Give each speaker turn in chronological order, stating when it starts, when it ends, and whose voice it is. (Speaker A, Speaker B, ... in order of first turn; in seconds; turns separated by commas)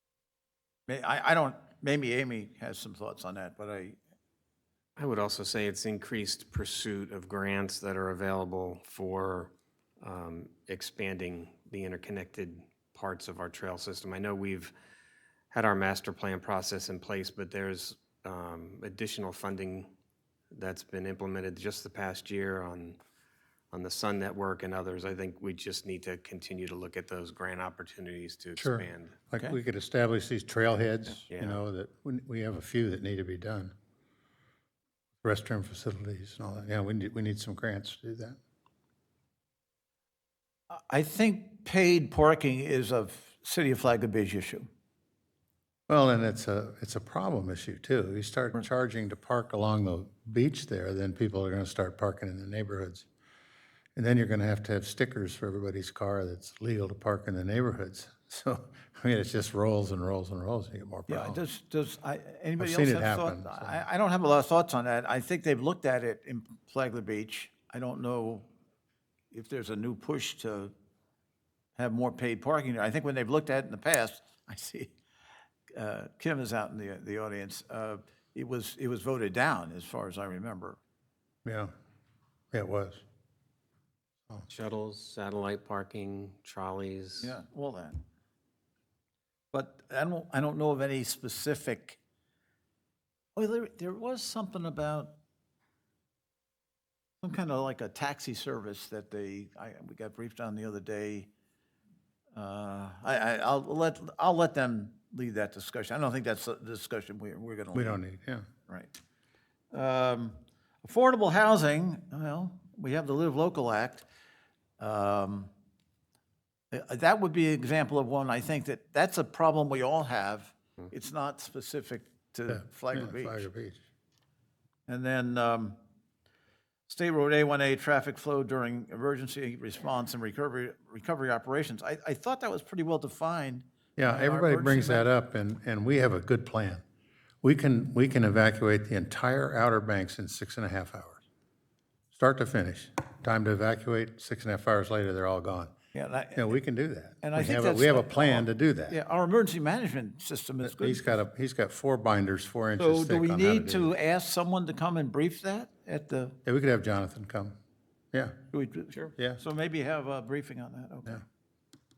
Speaker A: 0.9-4.0, Speaker B: 5.0-14.7, Speaker B: 15.5-19.9, Speaker B: 20.5-23.0, Speaker B: 23.7-29.2, Speaker C: 28.6-33.7, Speaker B: 31.3-31.6, Speaker C: 35.2-38.4, Speaker A: 40.7-44.7, Speaker C: 45.9-53.1, Speaker C: 54.0-61.4, Speaker A: 61.1-68.5, Speaker C: 62.6-63.8, Speaker A: 69.3-70.7, Speaker A: 71.8-74.9, Speaker A: 75.7-80.8, Speaker C: 81.4-81.7, Speaker C: 82.5-83.0, Speaker B: 84.5-87.4, Speaker A: 87.2-88.0, Speaker A: 89.5-92.0, Speaker A: 93.4-95.1, Speaker A: 97.2-101.3, Speaker A: 102.3-108.0, Speaker C: 107.7-108.5, Speaker A: 108.7-108.9, Speaker A: 109.7-114.0, Speaker A: 114.8-115.5, Speaker A: 116.7-123.5, Speaker C: 122.5-123.8, Speaker A: 124.9-125.8, Speaker A: 126.9-135.1, Speaker C: 134.0-136.8, Speaker C: 137.4-141.2, Speaker C: 142.1-145.7, Speaker A: 145.9-146.6, Speaker C: 146.3-149.0, Speaker A: 147.2-151.2, Speaker C: 150.6-153.9, Speaker A: 152.8-156.4, Speaker C: 156.4-157.5, Speaker A: 158.5-161.2